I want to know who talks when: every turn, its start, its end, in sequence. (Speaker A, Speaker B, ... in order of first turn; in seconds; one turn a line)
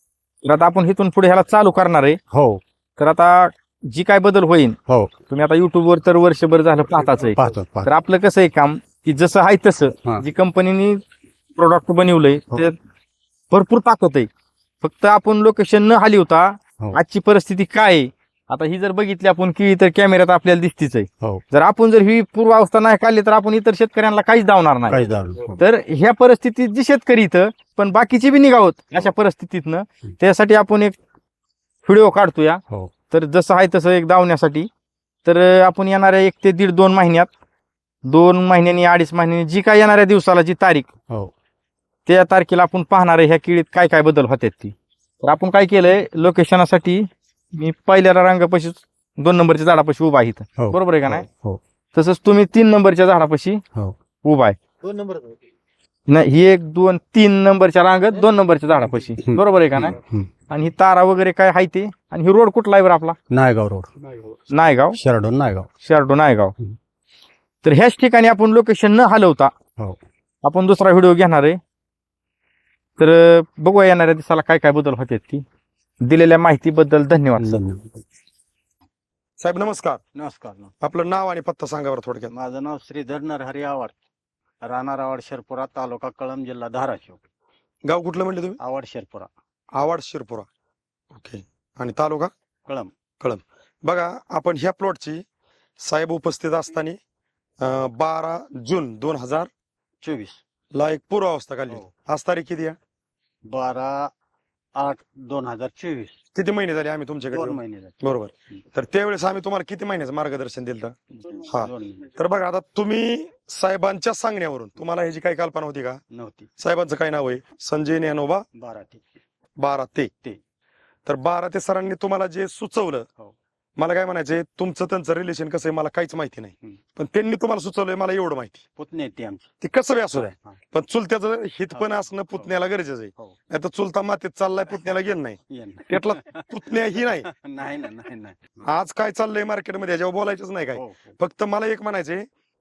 Speaker A: 0.4-2.2
Speaker B: 2.3-2.6
Speaker A: 3.0-4.8
Speaker B: 4.9-5.1
Speaker A: 5.3-11.0
Speaker B: 7.3-7.9
Speaker A: 11.6-12.8
Speaker A: 13.5-14.3
Speaker A: 14.8-25.0
Speaker B: 24.9-25.6
Speaker A: 25.6-30.9
Speaker A: 31.9-34.7
Speaker A: 35.2-37.3
Speaker A: 38.0-40.9
Speaker A: 42.1-51.3
Speaker B: 50.6-51.6
Speaker A: 51.9-53.6
Speaker A: 54.2-54.6
Speaker C: 54.8-55.4
Speaker A: 56.1-60.0
Speaker C: 58.1-59.1
Speaker B: 59.2-60.3
Speaker A: 60.5-63.1
Speaker B: 63.3-63.9
Speaker C: 64.0-64.5
Speaker A: 64.5-65.0
Speaker B: 64.9-65.7
Speaker A: 65.8-66.5
Speaker A: 67.6-69.5
Speaker A: 70.4-71.6
Speaker A: 73.0-75.4
Speaker A: 76.0-77.6
Speaker B: 77.4-78.0
Speaker D: 79.4-80.0
Speaker E: 80.1-80.7
Speaker D: 80.8-82.3
Speaker E: 82.3-83.9
Speaker E: 84.6-87.2
Speaker D: 87.8-88.6
Speaker E: 88.6-89.3
Speaker D: 89.8-90.5
Speaker D: 91.1-92.3
Speaker E: 92.7-92.9
Speaker D: 93.2-95.2
Speaker D: 95.8-97.0
Speaker D: 97.6-99.5
Speaker E: 100.0-100.4
Speaker D: 100.7-102.8
Speaker E: 103.5-104.1
Speaker E: 104.8-106.2
Speaker D: 106.3-111.0
Speaker E: 107.3-108.2
Speaker E: 111.1-112.1
Speaker D: 111.5-116.0
Speaker E: 116.1-116.5
Speaker D: 116.6-118.4
Speaker E: 118.5-119.0
Speaker D: 119.6-120.1
Speaker D: 121.0-123.1
Speaker D: 123.8-128.6
Speaker E: 128.8-129.5
Speaker D: 129.6-137.3
Speaker E: 130.1-130.6
Speaker E: 131.7-132.5
Speaker E: 135.5-138.7
Speaker D: 138.7-142.3
Speaker E: 140.7-141.2